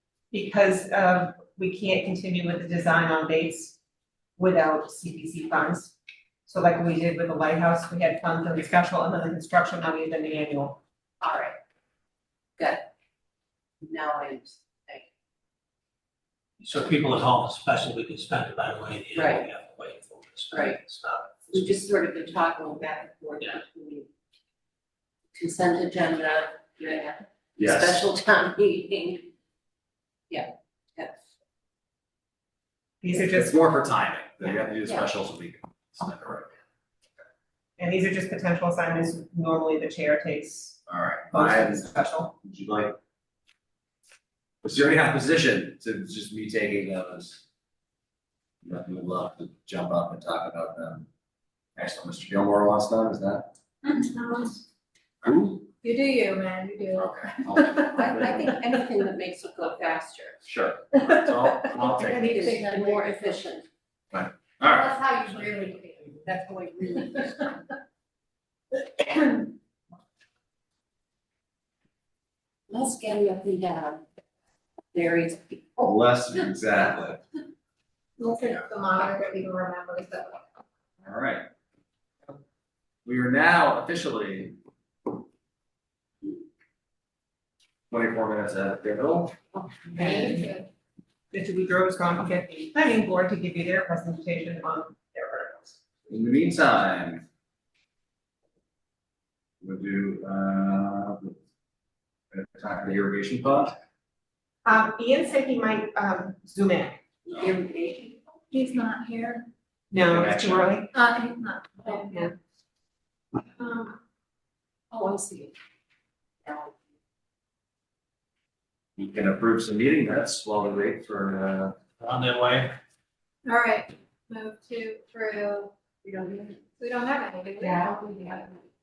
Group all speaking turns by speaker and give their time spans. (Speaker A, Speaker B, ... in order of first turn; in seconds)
Speaker A: 0.3-3.8, 4.4-5.9, 6.5-10.8, 33.0-33.6, 37.8-42.3, 62.2-63.3, 89.9-90.5, 91.3-95.8, 104.6-107.0, 109.9-110.9
Speaker B: 11.2-11.6, 12.6-12.8, 13.8-15.1, 19.1-19.5, 20.5-20.8, 21.5-24.1, 25.3-29.3, 30.3-31.2, 57.9-60.4, 62.1-63.6, 66.2-67.5, 72.7-74.0, 74.9-75.9, 107.2-108.2, 114.9-115.5, 116.5-116.8, 126.0-126.6, 127.6-128.6
Speaker C: 16.6-21.7, 122.0-122.8
Speaker D: 27.6-28.0, 33.1-36.5, 40.9-43.0, 44.6-47.4, 48.6-51.1, 51.8-53.5, 55.2-55.7, 56.9-58.5, 60.4-62.4, 64.1-64.9, 75.8-77.2, 81.0-81.5, 83.0-84.6, 87.9-89.3, 96.1-97.2, 99.6-101.3, 102.3-103.8, 110.0-110.7, 119.0-121.7
Speaker E: 53.8-54.6, 55.8-58.3, 62.4-62.9, 64.6-66.3, 69.0-69.2, 78.2-80.6, 89.9-90.7, 108.5-109.5, 110.9-112.3, 113.6-114.0, 123.4-125.7, 126.8-127.9